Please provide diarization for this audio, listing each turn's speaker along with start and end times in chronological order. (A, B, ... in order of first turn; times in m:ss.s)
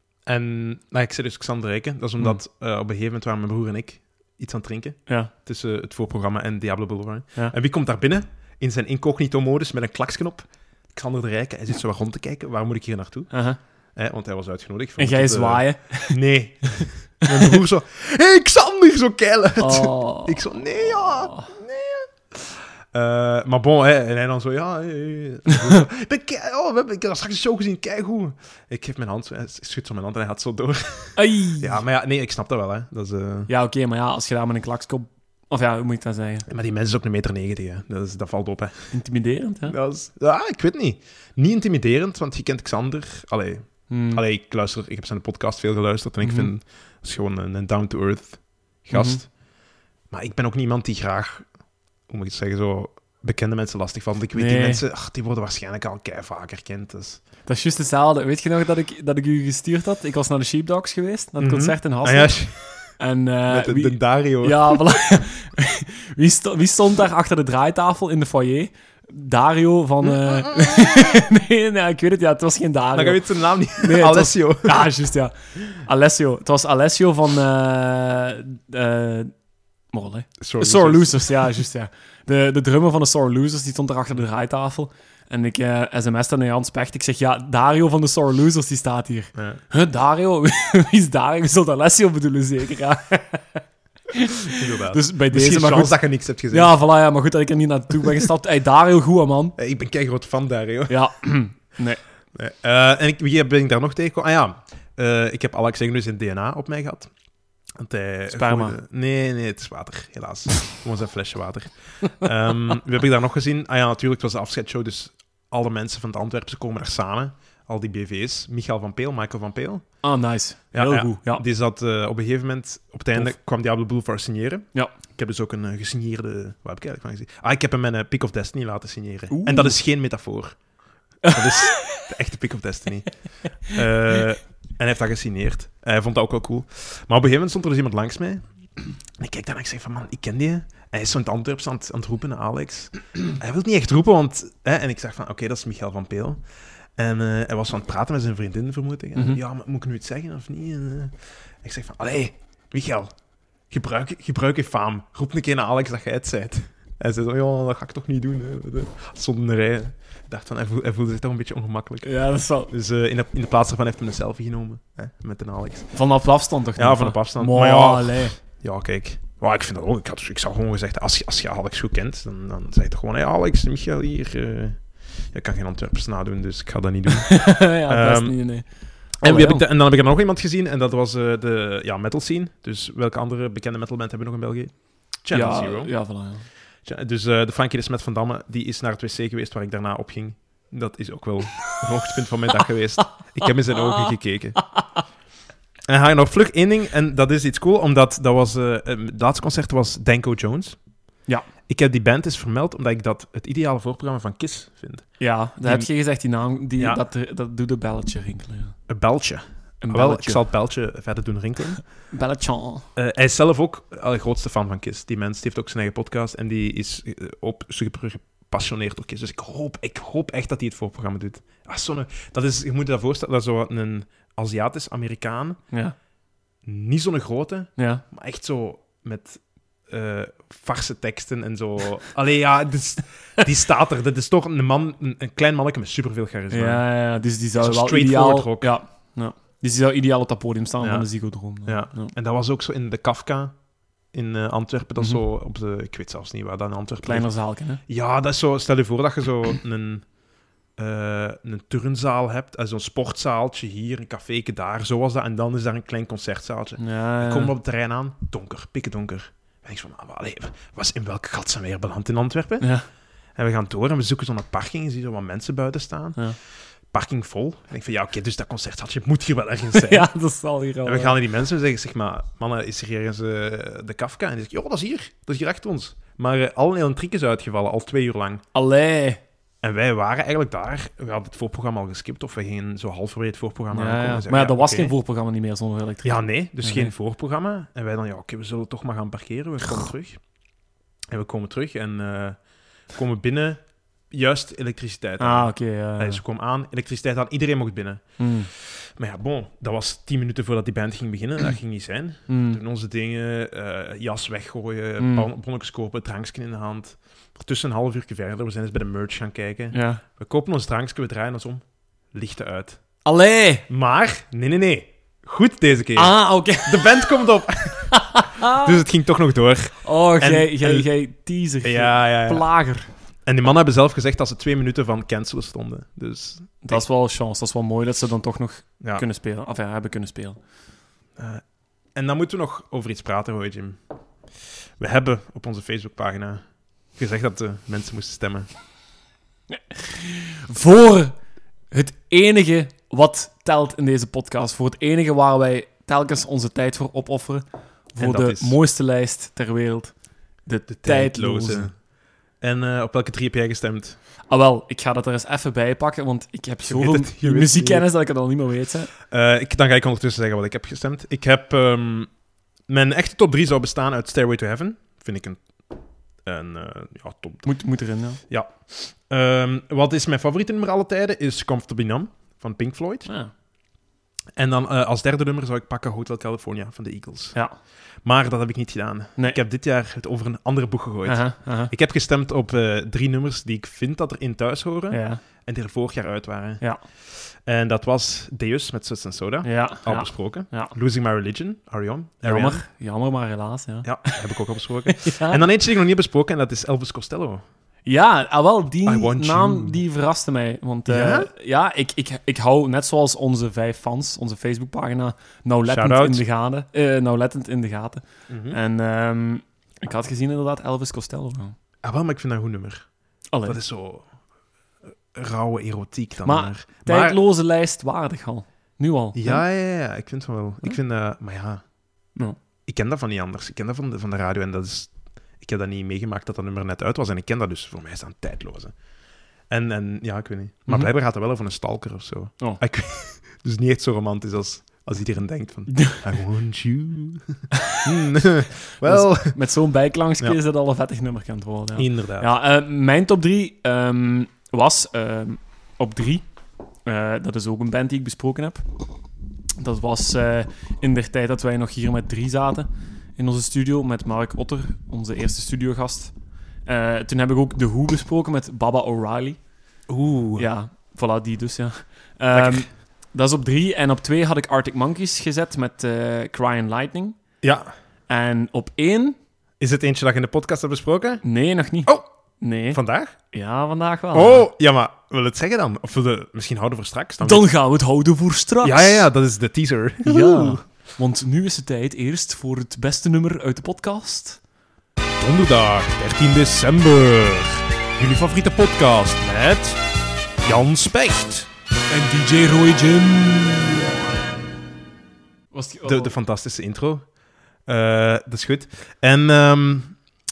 0:00.2-0:13.3 A
0:05.1-0:05.3 B
0:13.3-0:13.6 B
0:13.9-0:33.5 A
0:15.0-0:16.2 B
0:19.6-0:20.4 B
0:21.0-0:21.5 B
0:31.2-0:31.8 B
0:33.5-0:36.5 B
0:36.5-0:38.9 A
0:38.9-0:39.8 B
0:39.7-0:49.3 A
0:43.9-0:44.2 B
0:46.2-0:46.5 B
0:48.9-0:49.2 B
0:50.1-0:51.5 A
0:52.1-0:57.2 A
0:54.3-0:54.8 B
0:57.4-1:02.4 B
1:01.4-1:02.9 A
1:03.0-1:19.4 B
1:03.5-1:04.8 A
1:10.0-1:11.0 A
1:12.9-1:14.9 A
1:19.9-1:36.0 B
1:20.4-1:21.5 A
1:29.3-1:29.6 A
1:34.5-1:36.7 A
1:36.5-1:39.6 B
1:39.6-1:41.0 A
1:40.9-1:42.0 B
1:42.3-1:47.1 A
1:47.8-2:00.0 A
1:48.3-1:48.8 B
2:00.0-2:01.4 B
2:00.7-2:10.6 A
2:09.3-2:09.7 B
2:11.2-2:12.0 B
2:11.2-2:13.1 A
2:13.7-2:18.4 A
2:19.2-2:26.4 A
2:27.0-2:33.1 A
2:29.1-2:29.4 B
2:33.7-2:42.1 A
2:42.0-2:42.7 B
2:42.7-2:45.9 A
2:45.9-2:48.4 B
2:46.8-2:58.4 A
2:57.2-2:59.6 B
2:59.2-3:06.0 A
3:05.3-3:06.5 B
3:06.8-3:14.7 A
3:13.7-3:14.1 B
3:14.7-3:15.0 B
3:15.9-3:20.8 A
3:21.7-3:25.1 A
3:25.2-3:28.8 B
3:25.6-3:25.9 A
3:28.9-3:31.8 A
3:29.8-3:30.4 B
3:32.1-3:32.8 B
3:33.0-3:45.6 A
3:46.6-3:56.9 A
3:47.8-3:48.0 B
3:56.5-4:02.1 B
3:57.6-3:58.7 A
4:00.8-4:01.1 A
4:01.6-4:03.6 A
4:04.1-4:07.3 A
4:07.0-4:07.8 B
4:07.8-4:10.0 A
4:10.8-4:22.7 A
4:16.8-4:17.5 B
4:22.6-4:22.8 B
4:23.4-4:26.2 A
4:26.9-4:30.1 A
4:29.7-4:31.2 B
4:30.8-4:38.4 A
4:38.5-4:39.2 B
4:39.6-4:44.9 A
4:43.7-4:46.9 B
4:46.0-4:50.2 A
4:51.1-5:12.8 A
4:55.2-4:56.2 B
4:58.2-4:58.5 B
5:02.3-5:02.6 B
5:05.0-5:05.3 B
5:09.7-5:10.0 B
5:13.0-5:13.6 B
5:13.7-5:20.9 A
5:16.0-5:17.1 B
5:17.9-5:18.7 B
5:19.8-5:22.9 B
5:21.6-5:22.4 A
5:23.2-5:26.8 A
5:26.6-5:30.4 B
5:31.2-5:31.4 A
5:31.9-5:33.8 A
5:34.8-5:36.4 A
5:37.0-5:38.5 A
5:39.5-5:41.2 B
5:41.7-5:51.7 B
5:48.0-5:48.6 A
5:50.7-5:51.8 A
5:52.4-5:54.0 A
5:54.3-5:58.9 B
5:56.6-5:57.9 A
5:59.1-6:02.1 A
6:02.7-6:05.7 A
6:06.2-6:07.5 A
6:07.4-6:08.2 B
6:08.3-6:13.1 A
6:13.0-6:13.3 B
6:14.4-6:17.4 A
6:18.0-6:32.6 A
6:21.0-6:21.7 B
6:24.9-6:25.2 B
6:29.4-6:30.7 B
6:32.2-6:35.4 B
6:33.8-6:37.4 A
6:37.8-6:51.5 B
6:38.8-6:39.8 A
6:40.9-6:41.3 A
6:45.7-6:46.2 A
6:48.3-6:48.6 A
6:51.8-6:52.9 A
6:53.3-6:53.6 B
6:53.4-6:54.1 A
6:55.1-6:57.2 A
6:56.2-6:59.4 B
6:59.1-7:01.6 A
7:02.6-7:08.7 A
7:09.5-7:19.4 A
7:15.7-7:16.0 B
7:18.8-7:26.2 B
7:21.8-7:22.3 A
7:26.8-7:28.6 B
7:29.6-7:36.1 B
7:36.6-7:39.4 B
7:39.9-7:40.5 A
7:40.4-7:47.2 B
7:42.3-7:42.7 A
7:47.4-7:47.7 A
7:48.1-7:49.2 B
7:49.6-7:51.2 A
7:51.2-7:54.5 B
7:52.7-7:53.1 A
7:54.1-7:57.5 A
7:57.2-7:59.1 B
7:58.6-8:00.6 A
8:00.0-8:04.4 B
8:05.2-8:09.8 A
8:10.4-8:11.5 A
8:11.9-8:13.9 B
8:15.5-8:16.1 B
8:15.8-8:17.0 A
8:17.6-8:20.0 A